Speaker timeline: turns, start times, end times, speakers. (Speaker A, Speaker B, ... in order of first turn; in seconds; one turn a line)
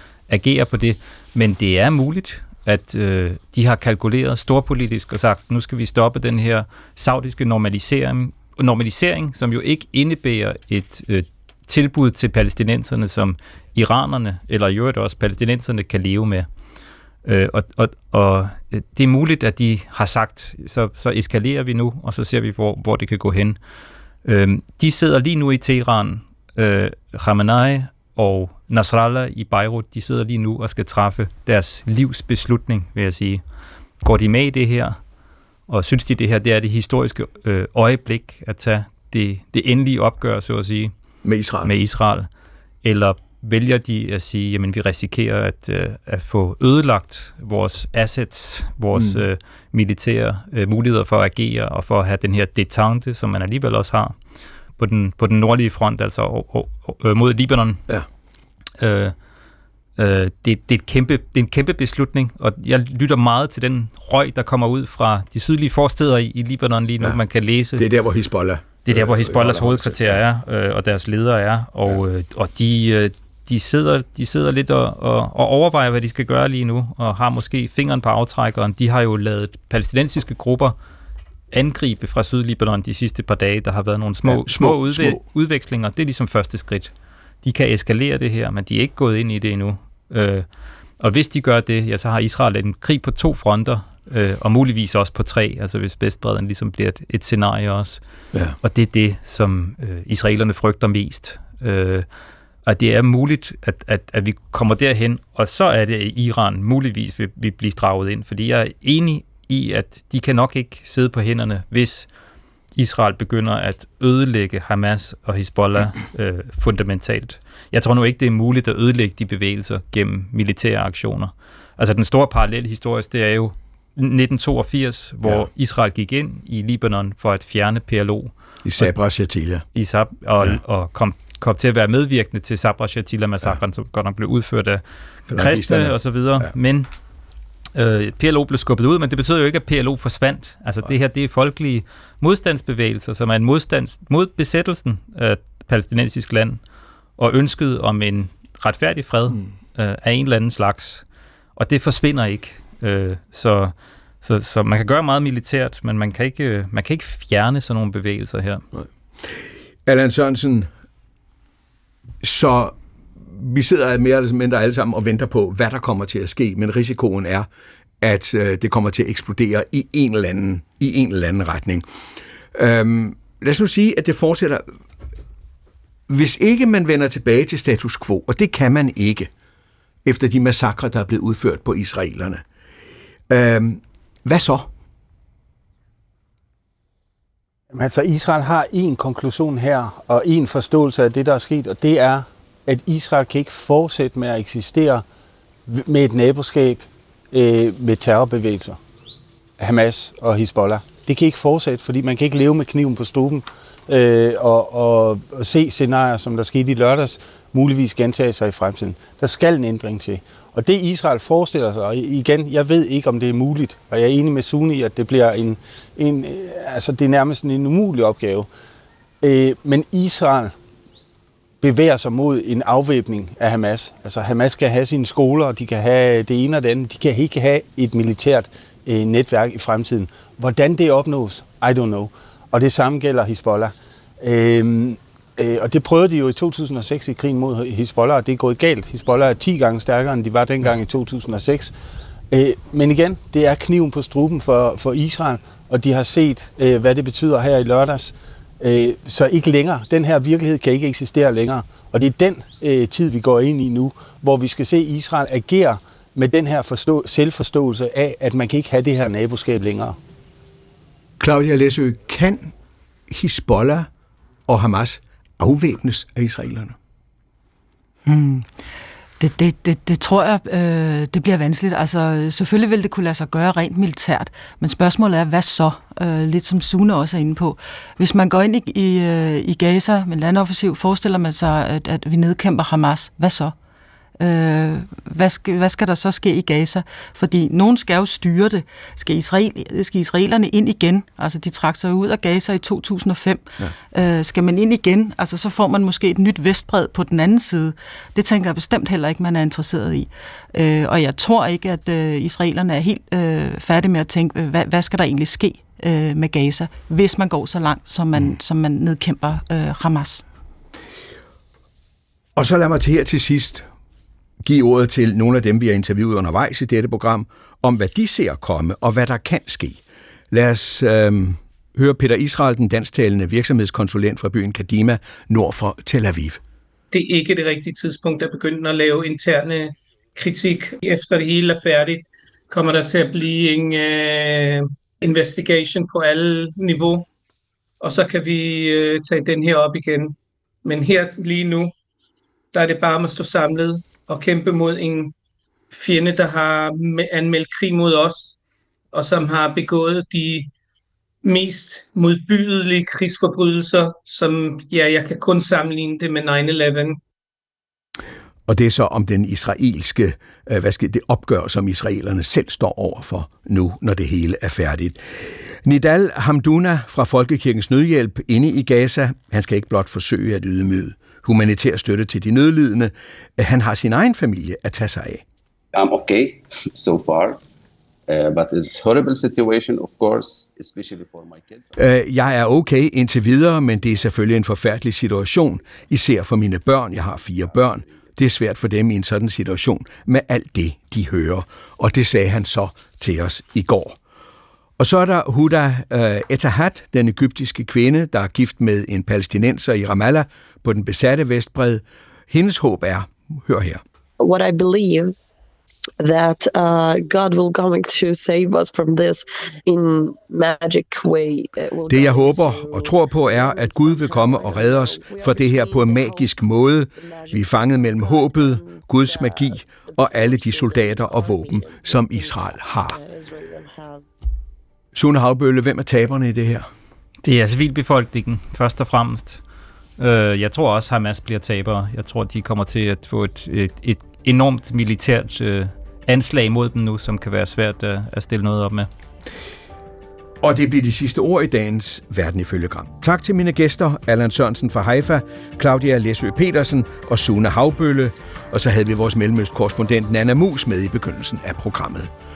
Speaker A: 0.3-16.5
Speaker A: 17.2-23.6
Speaker A: 24.2-33.4
Speaker A: 34.0-35.0
Speaker A: 35.7-40.9
Speaker B: 41.2-41.7
Speaker A: 41.6-42.3
Speaker A: 42.8-54.2
Speaker B: 49.0-49.2
Speaker A: 54.8-57.8
Speaker A: 58.8-59.1
Speaker A: 60.0-67.9
Speaker B: 67.8-70.2
Speaker A: 68.8-80.8
Speaker A: 81.5-86.9
Speaker B: 84.2-85.2
Speaker A: 87.4-90.5
Speaker A: 91.0-98.0
Speaker A: 98.6-102.1
Speaker A: 102.7-112.1
Speaker A: 112.8-128.9
Speaker B: 128.7-129.7
Speaker A: 129.7-134.8
Speaker B: 135.3-136.5
Speaker A: 135.3-136.9
Speaker A: 137.8-146.6
Speaker A: 147.2-151.0
Speaker A: 151.6-158.7
Speaker B: 159.4-160.7
Speaker B: 162.2-167.5
Speaker B: 168.0-171.8
Speaker B: 172.5-174.7
Speaker B: 176.1-179.3
Speaker B: 180.1-182.4
Speaker B: 183.3-184.7
Speaker C: 187.7-195.0
Speaker C: 195.7-198.8
Speaker C: 199.6-218.5
Speaker C: 219.2-220.5
Speaker C: 221.6-241.7
Speaker C: 242.3-260.0
Speaker B: 261.2-262.5
Speaker B: 263.1-263.9
Speaker B: 264.5-266.8
Speaker D: 268.1-268.5
Speaker D: 269.2-283.6
Speaker D: 284.2-310.2
Speaker B: 312.4-313.7
Speaker B: 314.4-319.8
Speaker B: 320.3-326.4
Speaker E: 326.9-337.1
Speaker E: 337.8-341.7
Speaker E: 342.5-345.1
Speaker E: 345.7-348.4
Speaker E: 348.9-350.5
Speaker E: 351.2-357.0
Speaker B: 358.5-375.2
Speaker F: 375.7-377.4
Speaker F: 378.1-381.8
Speaker B: 381.8-394.0
Speaker F: 387.1-388.2
Speaker B: 394.8-403.8
Speaker G: 404.2-405.1
Speaker G: 406.0-424.1
Speaker B: 411.9-423.0
Speaker B: 424.9-426.7
Speaker A: 427.2-429.4
Speaker A: 430.0-438.9
Speaker B: 440.4-452.1